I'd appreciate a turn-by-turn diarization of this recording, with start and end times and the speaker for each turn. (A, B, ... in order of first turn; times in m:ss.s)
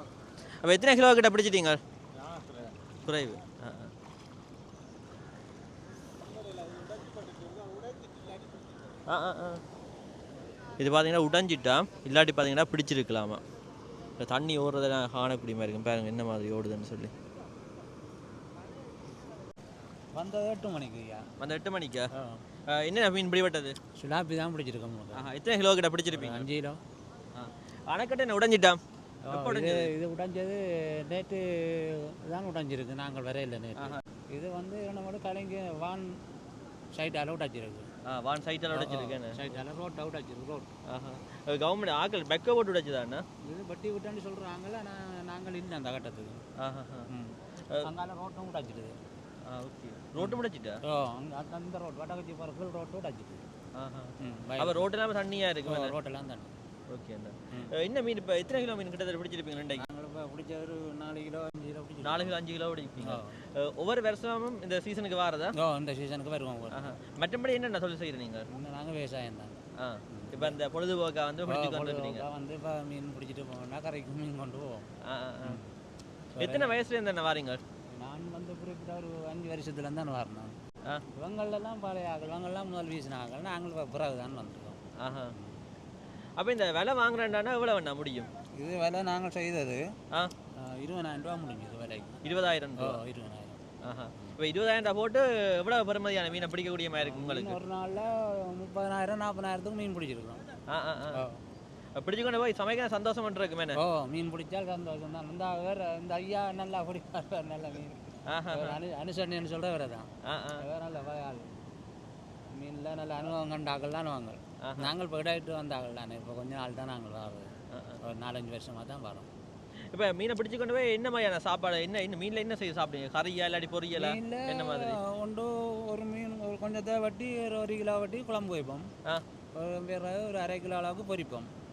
0:00.6-0:01.8 A
0:03.0-0:03.9 A
0:09.1-0:09.6 A
0:10.8-0:13.4 A
0:14.2-0:17.1 A
0:20.2-0:21.3 B
0:21.4-0:22.1 A
0:22.2-0:22.4 B
0:22.7-0:23.8 A
0:24.0-0:25.3 B
0:25.1-0:26.5 A
0:26.1-0:26.8 B
0:27.3-0:28.8 A
0:29.3-0:36.2 B
0:29.3-0:29.9 A
0:37.0-0:37.9 B
0:38.0-0:39.4 A
0:38.7-0:40.7 B
0:40.9-0:43.2 A
0:43.4-0:46.4 B
0:46.6-0:47.1 A
0:47.1-0:49.0 B
0:49.5-0:50.8 A
0:50.2-0:53.4 B
0:53.8-0:55.9 A
0:54.2-0:54.9 B
0:55.6-0:56.5 B
0:56.9-0:59.8 A
0:59.8-1:02.4 B
1:02.0-1:05.5 A
1:03.0-1:03.4 B
1:05.6-1:07.0 B
1:06.7-1:08.5 A
1:08.5-1:09.6 B
1:09.8-1:12.2 A
1:10.1-1:10.6 B
1:11.5-1:14.9 B
1:15.0-1:15.6 A
1:15.5-1:15.7 B
1:16.4-1:16.8 B
1:16.4-1:17.6 A
1:17.9-1:20.6 B
1:21.1-1:24.8 B
1:25.0-1:25.3 A
1:25.3-1:25.6 B
1:26.4-1:28.3 A
1:28.6-1:29.8 B
1:30.6-1:32.2 B
1:32.2-1:33.0 A
1:32.8-1:33.6 B
1:33.8-1:37.6 A
1:37.0-1:40.4 B
1:40.7-1:41.2 A
1:41.1-1:41.4 B
1:42.0-1:43.8 A
1:43.8-1:50.1 B
1:48.3-1:48.8 A
1:50.2-1:50.6 A
1:50.6-1:51.5 B
1:52.6-1:57.5 B
1:54.6-1:54.9 A
1:57.7-1:58.0 A
1:58.0-1:59.3 B
1:59.9-2:05.0 A
2:03.9-2:08.9 B
2:09.6-2:11.5 B